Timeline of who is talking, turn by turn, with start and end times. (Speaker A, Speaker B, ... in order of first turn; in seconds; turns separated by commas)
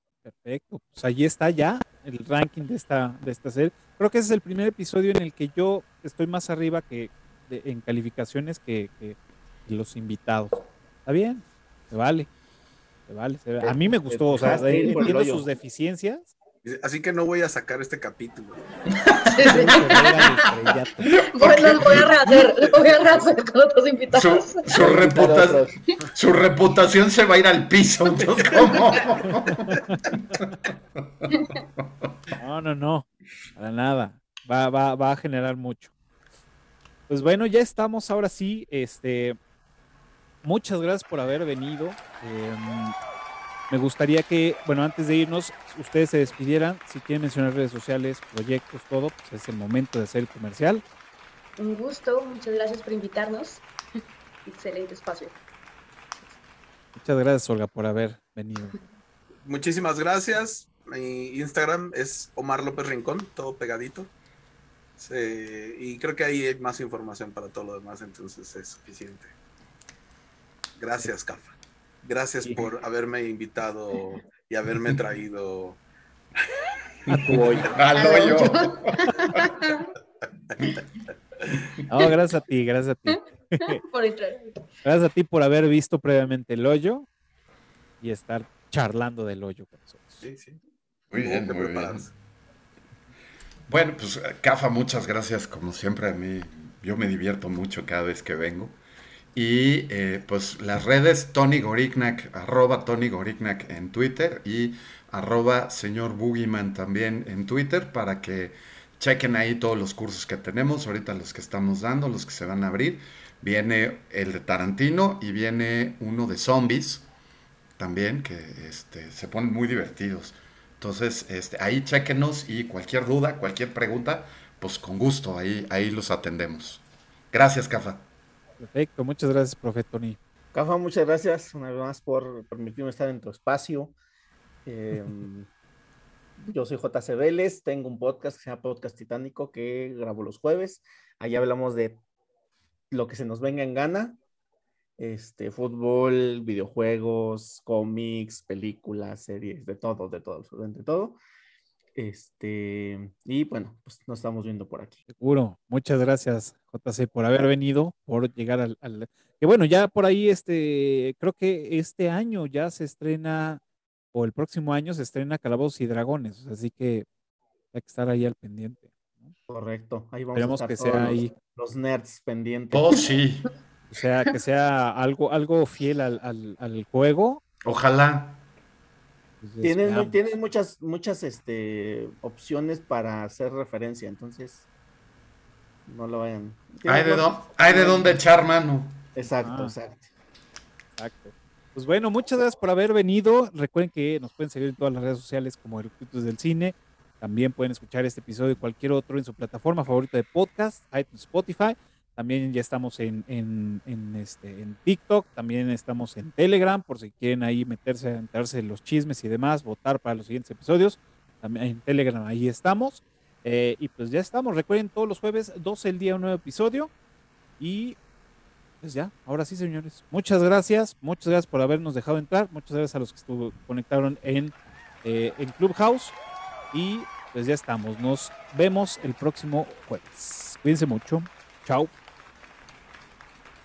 Speaker A: 0.2-12.3, Speaker A: 13.1-16.3, Speaker B: 13.6-15.4, Speaker C: 16.6-18.6, Speaker D: 18.9-19.8, Speaker E: 19.2-20.3, Speaker A: 19.5-21.0, Speaker D: 21.1-22.7, Speaker E: 21.2-24.7, Speaker D: 24.1-29.8, Speaker B: 24.7-25.7, Speaker A: 29.5-30.0, Speaker A: 32.4-35.9, Speaker A: 37.1-39.4, Speaker A: 40.4-43.0, Speaker A: 43.7-50.8, Speaker E: 51.6-53.6, Speaker E: 54.4-55.4, Speaker A: 57.0-58.8, Speaker C: 59.4-64.1, Speaker C: 65.0-69.3, Speaker C: 70.8-75.8, Speaker A: 77.1-77.7, Speaker D: 77.1-79.5, Speaker E: 77.9-79.9, Speaker A: 81.9-83.8, Speaker E: 83.1-84.5, Speaker A: 84.8-87.1, Speaker A: 88.0-90.2, Speaker C: 90.2-90.6, Speaker D: 91.1-92.0, Speaker C: 91.1-92.1, Speaker D: 93.7-98.8, Speaker D: 99.3-117.0, Speaker D: 117.8-128.0, Speaker A: 128.6-130.2, Speaker B: 130.5-133.9, Speaker B: 134.6-135.5, Speaker B: 136.4-142.0, Speaker B: 142.9-144.2, Speaker B: 145.0-151.2, Speaker B: 151.9-155.0, Speaker A: 155.1-163.6, Speaker A: 164.1-167.1, Speaker A: 167.7-169.3, Speaker B: 169.5-173.0, Speaker A: 170.3-171.3, Speaker D: 172.7-173.5, Speaker A: 173.9-177.4, Speaker D: 177.6-178.4, Speaker A: 179.4-180.2, Speaker B: 179.6-184.6, Speaker B: 185.8-188.2, Speaker D: 186.8-189.0, Speaker B: 189.1-190.1, Speaker A: 189.3-189.8, Speaker A: 190.9-216.9, Speaker A: 217.6-218.0, Speaker A: 218.8-226.2, Speaker A: 226.7-231.9